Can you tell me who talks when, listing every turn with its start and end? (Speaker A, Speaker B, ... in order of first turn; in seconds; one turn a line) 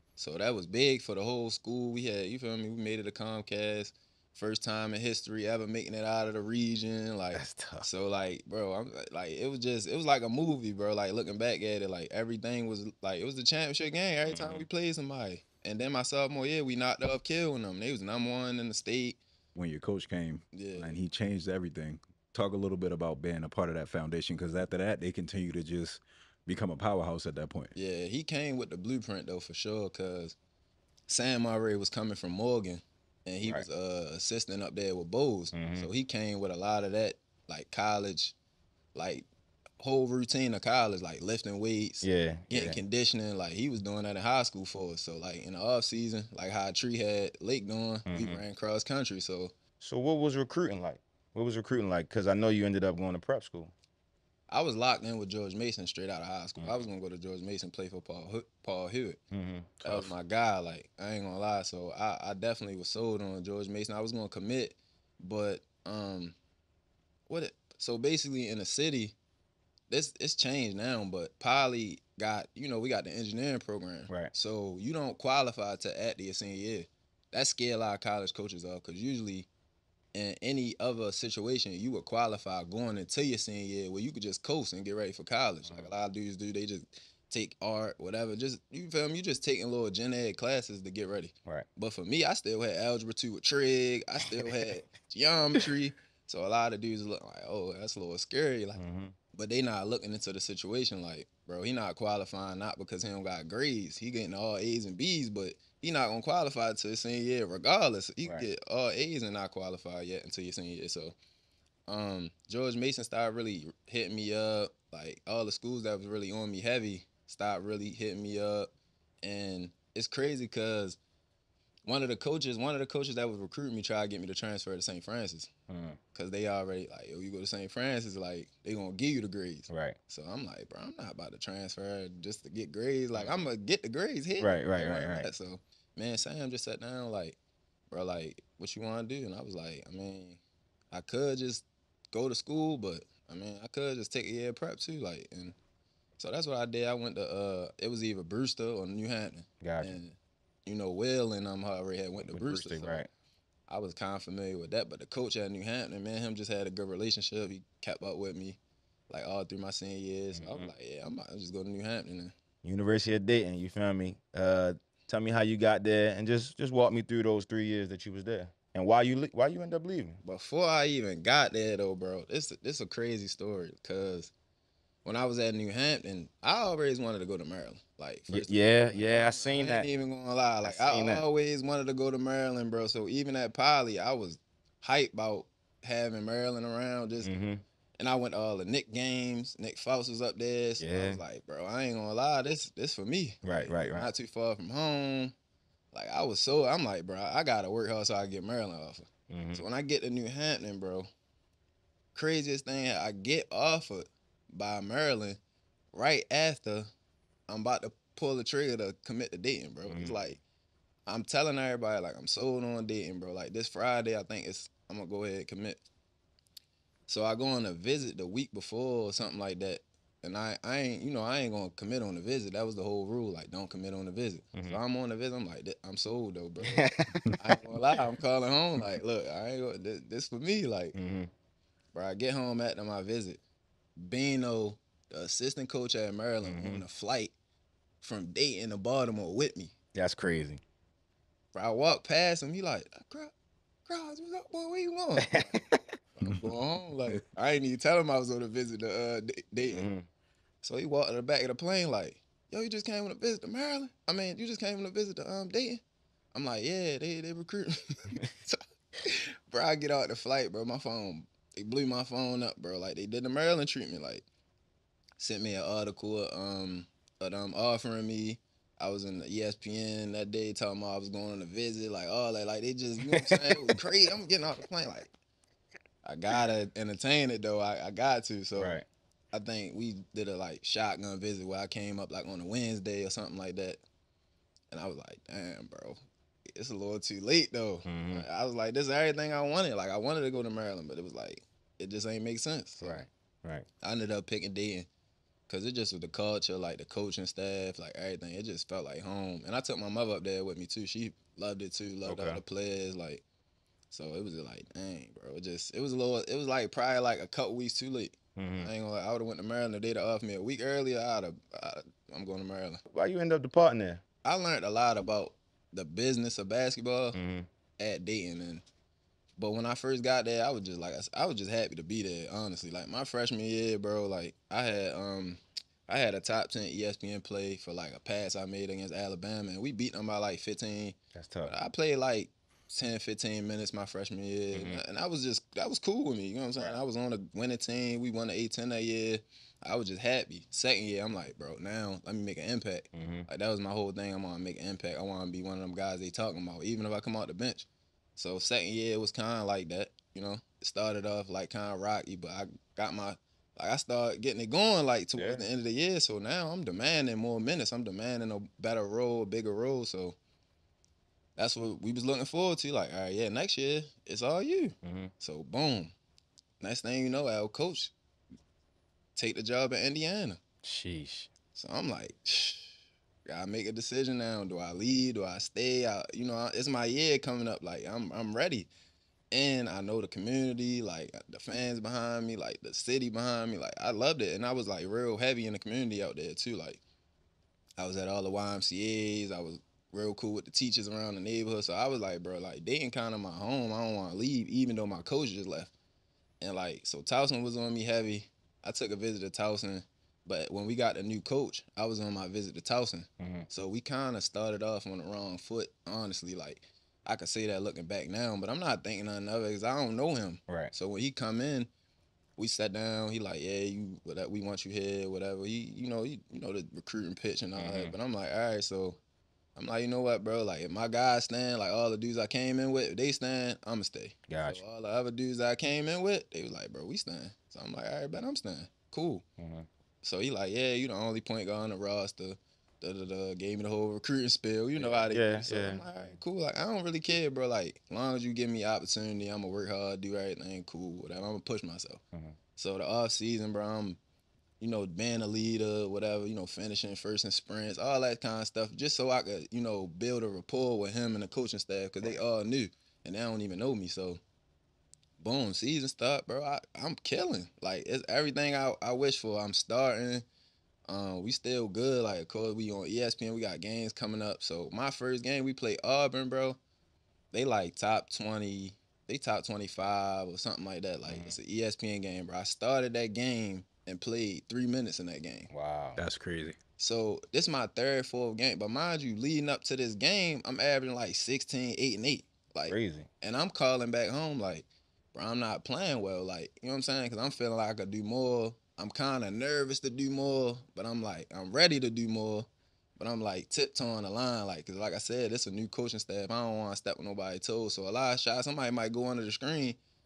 Speaker A: 0.2-19.2
Speaker B: 7.3-7.8
Speaker B: 14.3-14.6
Speaker C: 19.5-27.7
Speaker A: 20.5-20.9
Speaker A: 27.8-30.4
Speaker A: 31.1-38.3
Speaker B: 35.5-35.9
Speaker A: 38.9-39.3
Speaker A: 39.8-49.5
Speaker B: 42.0-42.8
Speaker B: 48.1-48.4
Speaker B: 49.8-53.7
Speaker A: 54.5-59.2
Speaker B: 56.6-56.9
Speaker B: 59.3-60.1
Speaker A: 59.8-66.3
Speaker A: 67.3-69.2
Speaker A: 69.9-79.5
Speaker A: 80.1-98.8
Speaker B: 85.6-85.9
Speaker B: 98.8-99.1
Speaker A: 99.3-111.2
Speaker B: 108.2-108.5
Speaker A: 111.9-118.7
Speaker A: 119.2-121.0
Speaker A: 121.8-125.5
Speaker B: 125.7-126.0
Speaker A: 126.1-137.4
Speaker B: 129.7-130.0
Speaker B: 134.4-135.3
Speaker A: 137.9-140.4
Speaker A: 140.9-145.6
Speaker A: 146.2-153.0
Speaker B: 149.6-150.0
Speaker B: 152.2-153.1
Speaker A: 153.7-158.6
Speaker A: 159.1-162.3
Speaker B: 160.3-160.7
Speaker B: 162.6-170.2
Speaker A: 170.2-174.3
Speaker A: 175.0-187.3
Speaker B: 178.3-179.9
Speaker B: 180.6-181.2
Speaker B: 187.2-187.6
Speaker A: 188.0-195.3
Speaker B: 190.8-191.2
Speaker B: 193.4-194.1
Speaker A: 195.9-201.1
Speaker B: 199.3-199.6
Speaker A: 202.2-205.4
Speaker A: 205.9-206.9
Speaker A: 207.5-210.4
Speaker B: 209.9-210.2
Speaker A: 211.1-215.8
Speaker A: 217.1-226.8
Speaker B: 224.5-224.8
Speaker B: 226.6-227.6
Speaker A: 227.4-231.0
Speaker B: 230.9-231.3
Speaker A: 231.9-233.4
Speaker A: 234.0-237.3
Speaker B: 236.4-236.8
Speaker A: 238.0-239.7
Speaker B: 239.9-240.6
Speaker A: 241.5-243.3
Speaker A: 243.8-249.9
Speaker B: 245.2-245.8
Speaker B: 249.7-250.1
Speaker A: 250.6-255.8
Speaker A: 256.3-264.2
Speaker A: 265.2-275.1
Speaker B: 273.1-273.7
Speaker A: 276.0-278.8
Speaker B: 278.6-278.9
Speaker A: 279.3-283.8
Speaker A: 284.7-286.0
Speaker A: 286.5-293.0
Speaker B: 287.9-288.2
Speaker B: 292.8-293.6
Speaker A: 293.8-294.9
Speaker A: 295.5-303.2
Speaker B: 302.0-302.4
Speaker A: 303.9-312.8
Speaker B: 308.4-308.7
Speaker B: 312.9-314.0
Speaker A: 314.2-317.2
Speaker B: 317.1-317.5
Speaker A: 317.8-318.6
Speaker A: 319.4-360.2
Speaker B: 331.1-331.5
Speaker B: 334.5-334.8
Speaker B: 342.9-343.3
Speaker B: 355.1-355.4
Speaker A: 361.4-365.9
Speaker B: 364.8-365.1
Speaker A: 366.6-367.9
Speaker A: 369.1-370.4
Speaker B: 370.6-371.3
Speaker A: 371.6-372.7
Speaker A: 373.3-378.7
Speaker A: 379.3-386.8
Speaker A: 387.8-395.7
Speaker A: 396.4-411.7
Speaker B: 403.2-403.5
Speaker A: 412.4-419.0
Speaker B: 417.6-417.9
Speaker A: 419.6-429.2
Speaker B: 424.3-424.6
Speaker B: 429.4-429.7
Speaker A: 430.0-442.0
Speaker B: 434.8-435.8
Speaker A: 442.6-444.0
Speaker A: 444.6-454.2
Speaker A: 455.2-460.2
Speaker A: 460.9-466.6
Speaker A: 467.3-475.5
Speaker B: 471.1-471.4
Speaker B: 475.5-476.0
Speaker C: 476.0-476.6
Speaker A: 476.8-499.8
Speaker B: 482.7-483.1